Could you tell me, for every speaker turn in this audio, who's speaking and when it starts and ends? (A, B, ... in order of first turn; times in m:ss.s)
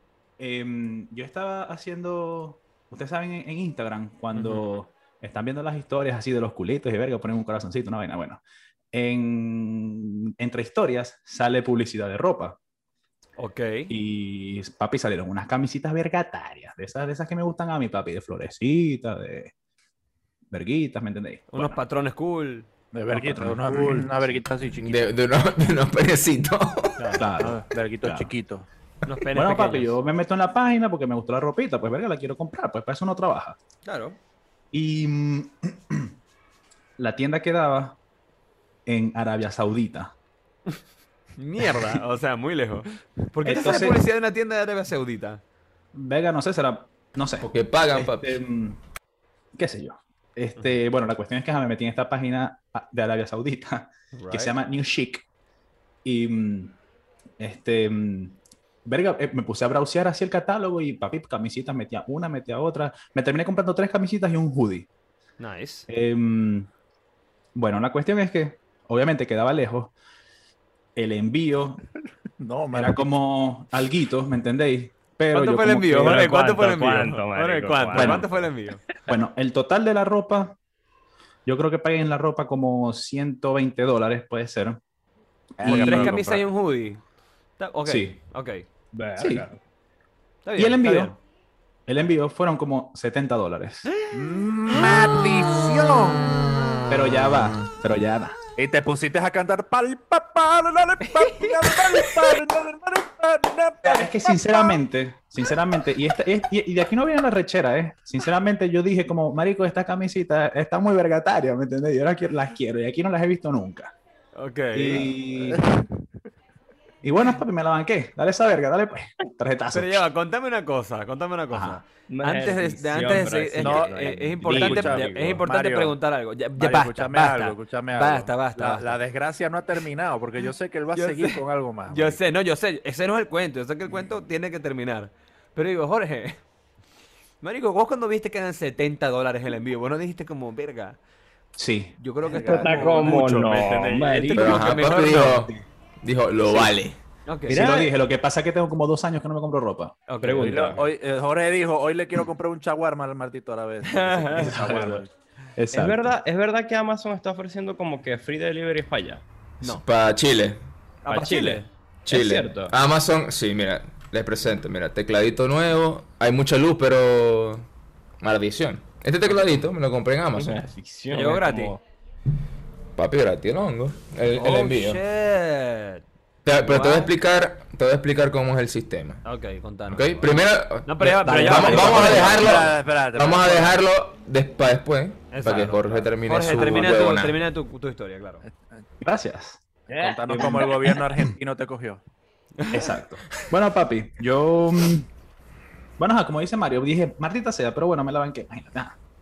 0:00.4-0:08.4 A
0:04.4-0:04.8 B
0:08.9-0:12.6 A
0:13.4-0:13.9 B
0:13.9-0:19.5 A
0:20.5-0:21.8 A
0:21.5-0:22.7 B
0:22.9-0:25.1 C
0:23.1-0:24.2 A
0:24.9-0:27.2 D
0:27.0-0:27.3 B
0:27.2-0:28.3 A
0:27.3-0:28.7 C
0:29.0-0:30.0 B
0:29.3-0:33.6 A
0:33.8-0:34.2 B
0:34.7-0:36.1 A
0:37.0-0:38.0 A
0:38.9-0:40.1 A
0:41.4-0:45.4 B
0:41.6-0:42.0 A
0:43.4-0:44.0 A
0:45.9-0:48.8 A
0:47.4-0:48.4 D
0:49.6-0:55.2 A
0:54.1-0:54.5 B
0:56.0-0:56.8 A
0:57.4-1:04.9 A
1:05.4-1:05.9 B
1:05.9-1:06.7 A
1:07.6-1:09.9 A
1:11.0-1:11.8 A
1:12.0-1:13.1 C
1:12.7-1:16.3 A
1:15.3-1:18.8 B
1:16.0-1:18.3 E
1:17.9-1:18.3 A
1:19.1-1:20.6 A
1:21.5-1:24.8 A
1:25.6-1:26.4 C
1:25.6-1:26.2 A
1:25.7-1:27.0 B
1:27.6-1:28.6 B
1:27.9-1:28.2 A
1:28.9-1:29.6 E
1:29.2-1:29.5 A
1:30.4-1:31.2 B
1:30.6-1:31.1 A
1:31.9-1:34.0 A
1:34.0-1:36.6 C
1:36.9-1:38.4 A
1:38.6-1:44.1 C
1:43.8-1:53.9 A
1:54.4-1:55.2 B
1:54.7-1:55.8 A
1:55.5-1:56.1 C
1:57.0-2:00.1 A
1:59.7-2:09.0 B
2:01.5-2:01.8 A
2:02.1-2:05.4 E
2:03.6-2:06.0 C
2:06.6-2:12.2 C
2:11.0-2:16.4 B
2:17.4-2:21.0 B
2:21.6-2:22.0 A
2:22.0-2:25.5 B
2:22.2-2:23.1 C
2:22.4-2:24.6 E
2:24.3-2:27.0 D
2:25.0-2:25.6 A
2:27.3-2:27.8 B
2:27.5-2:30.0 A
2:27.5-2:27.9 E
2:30.1-2:30.8 B
2:30.2-2:30.8 E
2:30.4-2:35.1 C
2:33.8-2:34.8 B
2:34.3-2:35.0 A
2:35.6-2:36.2 A
2:35.7-2:39.2 E
2:39.6-2:40.6 D
2:41.0-2:41.7 B
2:41.1-2:42.7 E
2:42.1-2:47.7 D
2:48.2-2:50.7 D
2:50.4-2:51.8 E
2:51.1-2:51.8 B
2:53.0-2:55.0 D
2:54.3-2:56.0 B
2:56.4-2:59.2 D
2:56.6-2:57.1 B
2:59.2-3:02.6 B
2:59.9-3:07.4 D
3:01.2-3:03.8 C
3:02.0-3:02.3 A
3:05.3-3:08.4 B
3:09.0-3:09.6 A
3:09.9-3:10.9 E
3:10.0-3:12.0 C
3:12.6-3:12.9 B
3:12.7-3:15.1 A
3:16.0-3:19.0 A